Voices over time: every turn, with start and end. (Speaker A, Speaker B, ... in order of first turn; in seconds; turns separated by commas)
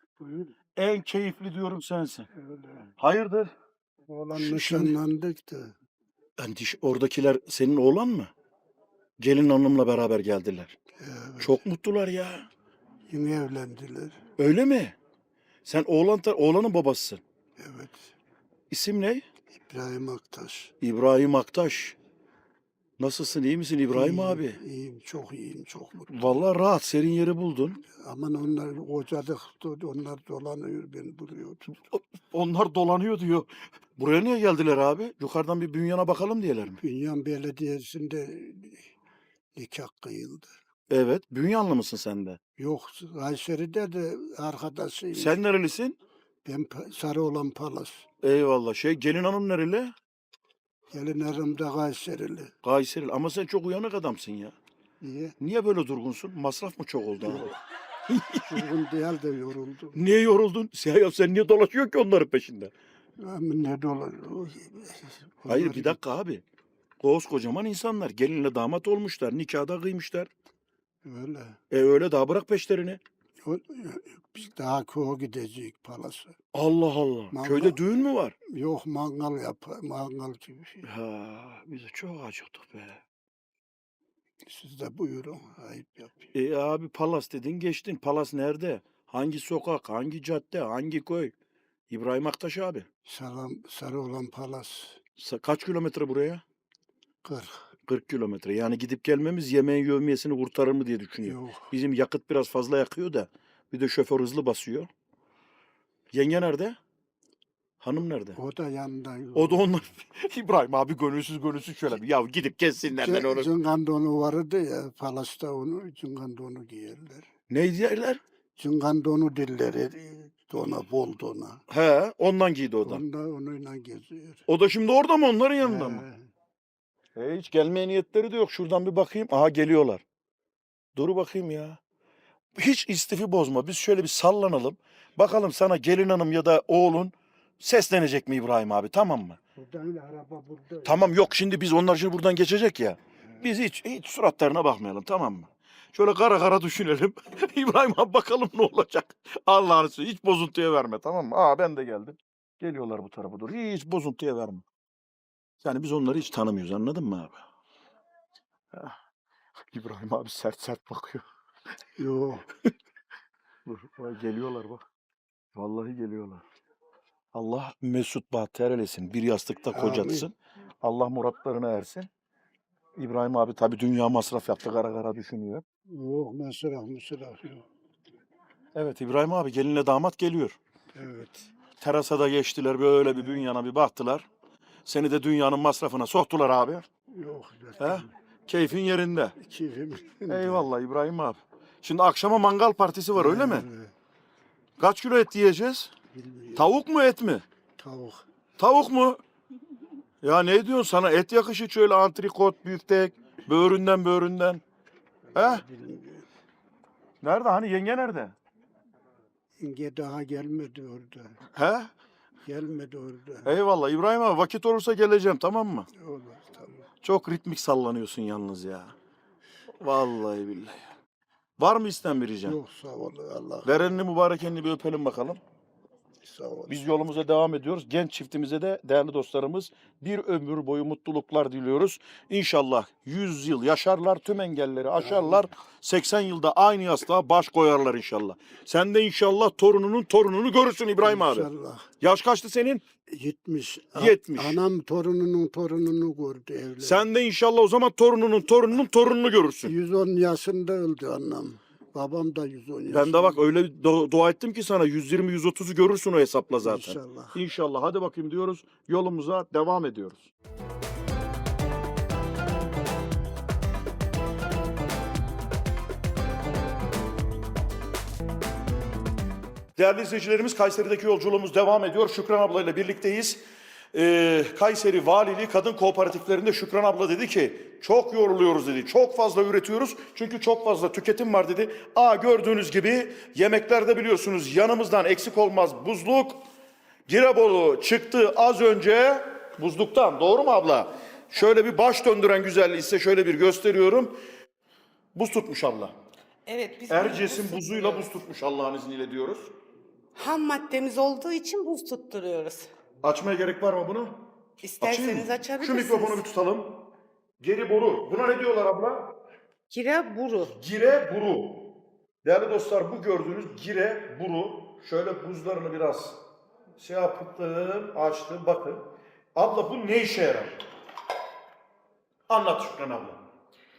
Speaker A: 0.2-0.5, Speaker B: 0.8-2.3, Speaker A: 2.3-2.9, Speaker B: 3.0-3.5, Speaker A: 4.1-5.7, Speaker B: 4.3-5.0, Speaker B: 6.4-8.3, Speaker B: 9.2-10.8, Speaker A: 11.0-11.6, Speaker B: 11.4-12.5, Speaker A: 13.1-14.2, Speaker B: 14.4-14.9, Speaker B: 15.6-17.2, Speaker A: 17.6-18.1, Speaker B: 18.7-19.2, Speaker A: 19.5-20.7, Speaker B: 20.8-21.9, Speaker B: 23.0-24.6, Speaker A: 23.9-26.3, Speaker B: 26.1-27.8, Speaker A: 27.9-31.7, Speaker B: 31.7-36.8, Speaker A: 36.8-38.9, Speaker A: 39.5-40.5, Speaker B: 40.9-42.4, Speaker A: 42.6-45.4, Speaker B: 45.1-46.0, Speaker A: 46.4-48.0, Speaker B: 48.2-49.9, Speaker A: 50.9-52.5, Speaker B: 52.6-54.5, Speaker A: 55.0-55.3, Speaker B: 55.4-57.5, Speaker A: 57.2-57.5, Speaker B: 58.1-58.6, Speaker A: 58.5-60.0, Speaker B: 59.9-62.7, Speaker A: 63.2-66.0, Speaker B: 65.5-66.4, Speaker B: 67.0-70.3, Speaker A: 71.0-71.6, Speaker B: 71.7-73.0, Speaker A: 73.4-76.3, Speaker B: 76.5-78.3, Speaker A: 77.3-77.8, Speaker A: 78.5-80.8, Speaker B: 80.8-83.0, Speaker A: 84.4-86.3, Speaker B: 86.3-91.3, Speaker B: 91.9-92.8, Speaker A: 93.0-95.0, Speaker B: 95.2-96.4, Speaker A: 97.2-97.6, Speaker B: 97.9-104.9, Speaker A: 101.2-101.7, Speaker B: 106.1-106.8, Speaker B: 107.8-108.4, Speaker A: 108.3-109.7, Speaker B: 109.3-113.5, Speaker A: 113.0-117.3, Speaker B: 117.5-118.2, Speaker A: 118.6-121.6, Speaker B: 121.7-123.0, Speaker A: 122.8-124.4, Speaker B: 124.5-126.0, Speaker A: 125.6-126.3, Speaker B: 127.2-130.0, Speaker B: 130.9-131.8, Speaker B: 132.6-139.4, Speaker A: 139.6-141.3, Speaker B: 140.8-154.6, Speaker B: 155.6-157.4, Speaker B: 159.7-161.2, Speaker A: 162.0-162.5, Speaker B: 163.7-164.8, Speaker B: 165.5-166.4, Speaker B: 167.3-172.1, Speaker A: 169.7-170.3, Speaker B: 173.0-175.6, Speaker A: 175.9-177.6, Speaker B: 178.7-180.6, Speaker A: 180.9-181.5, Speaker B: 181.8-184.2, Speaker B: 184.8-186.8, Speaker A: 187.1-188.1, Speaker B: 187.8-189.3, Speaker A: 189.4-190.7, Speaker B: 190.3-193.7, Speaker A: 193.1-193.9, Speaker B: 194.8-195.9, Speaker A: 196.1-196.7, Speaker B: 196.5-197.4, Speaker A: 197.8-198.2, Speaker B: 198.6-199.2, Speaker B: 200.2-204.6, Speaker A: 205.3-206.2, Speaker B: 205.3-205.6, Speaker B: 207.2-208.3, Speaker A: 209.6-211.4, Speaker B: 211.5-211.9, Speaker A: 212.4-213.5, Speaker B: 213.4-215.9, Speaker A: 215.9-216.9, Speaker B: 217.0-218.9, Speaker B: 219.8-220.8, Speaker B: 221.6-222.6, Speaker A: 222.4-223.9, Speaker B: 223.6-225.4, Speaker A: 226.2-226.8, Speaker B: 226.7-241.5, Speaker A: 235.0-235.4, Speaker A: 241.0-241.9, Speaker B: 242.0-242.8, Speaker A: 243.1-247.0, Speaker B: 243.9-244.6, Speaker B: 246.8-249.7, Speaker A: 249.6-253.4, Speaker B: 252.9-260.3, Speaker A: 256.6-257.4, Speaker B: 269.8-273.4, Speaker B: 273.9-286.4, Speaker B: 287.1-294.1, Speaker B: 295.1-295.9, Speaker C: 296.4-298.1, Speaker B: 296.9-299.5, Speaker C: 300.1-302.7, Speaker B: 303.0-304.2, Speaker C: 304.6-306.2, Speaker B: 304.8-306.8, Speaker B: 307.4-309.1, Speaker C: 309.7-310.5, Speaker B: 310.5-311.7, Speaker B: 312.2-316.2, Speaker B: 316.8-318.8, Speaker B: 319.3-320.6, Speaker B: 322.3-323.2